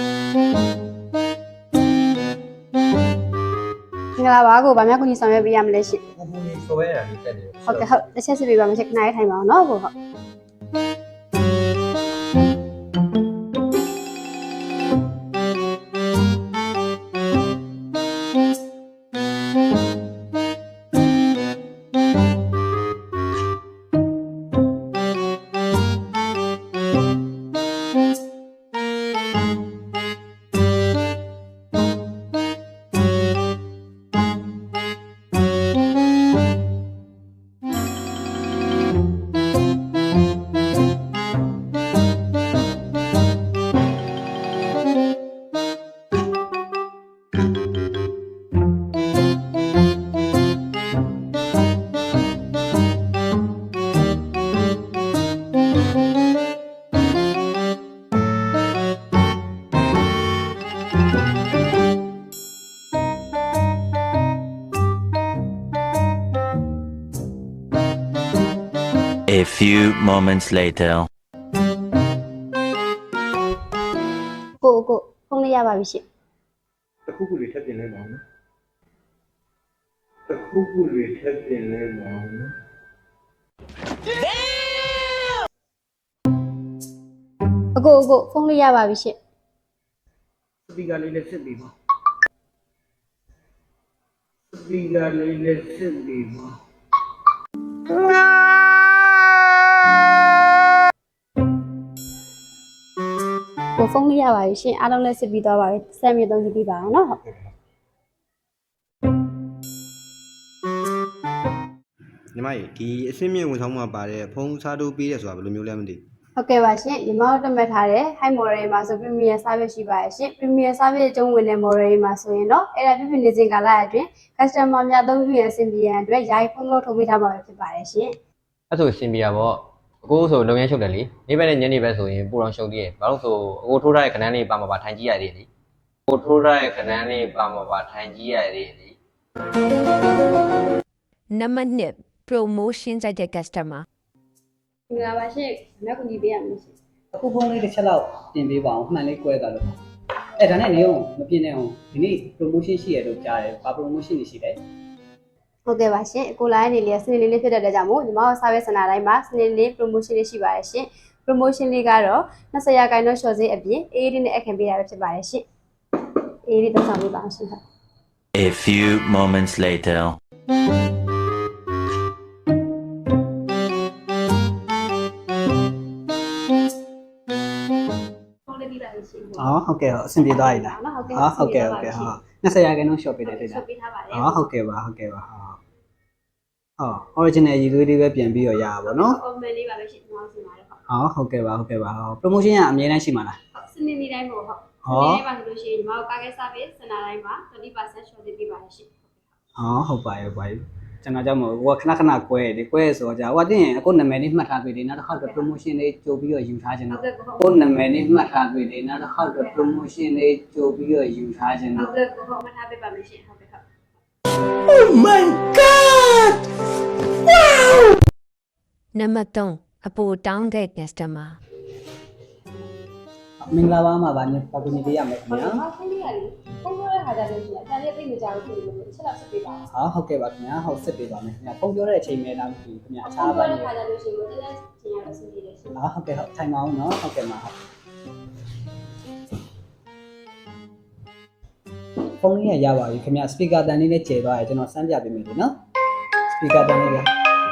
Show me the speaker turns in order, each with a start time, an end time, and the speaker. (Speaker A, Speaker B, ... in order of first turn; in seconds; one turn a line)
Speaker A: 4.2-6.0
Speaker B: 6.1-7.9
Speaker A: 7.7-9.9
Speaker C: 69.3-71.1
Speaker A: 74.6-76.0
Speaker D: 77.1-78.2
Speaker D: 80.3-82.5
Speaker A: 87.8-89.1
Speaker D: 90.9-91.5
Speaker D: 94.5-96.4
Speaker A: 103.8-107.2
Speaker E: 112.3-116.0
Speaker A: 116.4-128.1
Speaker B: 128.7-135.5
Speaker B: 136.1-138.9
Speaker F: 141.3-143.8
Speaker A: 144.9-146.7
Speaker G: 147.1-149.7
Speaker G: 150.4-154.6
Speaker A: 155.7-165.4
Speaker A: 166.5-167.6
Speaker C: 168.3-170.2
Speaker A: 178.5-179.5
Speaker G: 179.4-185.6
Speaker A: 180.2-182.2
Speaker A: 183.2-184.5
Speaker G: 186.8-189.2
Speaker A: 188.8-190.8
Speaker G: 190.9-193.4
Speaker A: 193.5-199.2
Speaker G: 194.8-195.2
Speaker G: 199.6-211.9
Speaker A: 206.9-207.5
Speaker A: 211.8-213.6
Speaker G: 214.7-216.4
Speaker F: 218.9-221.4
Speaker G: 223.4-225.6
Speaker A: 224.7-229.6
Speaker G: 229.7-233.7
Speaker A: 233.0-235.8
Speaker G: 235.7-237.5
Speaker G: 242.2-245.5
Speaker G: 246.3-247.1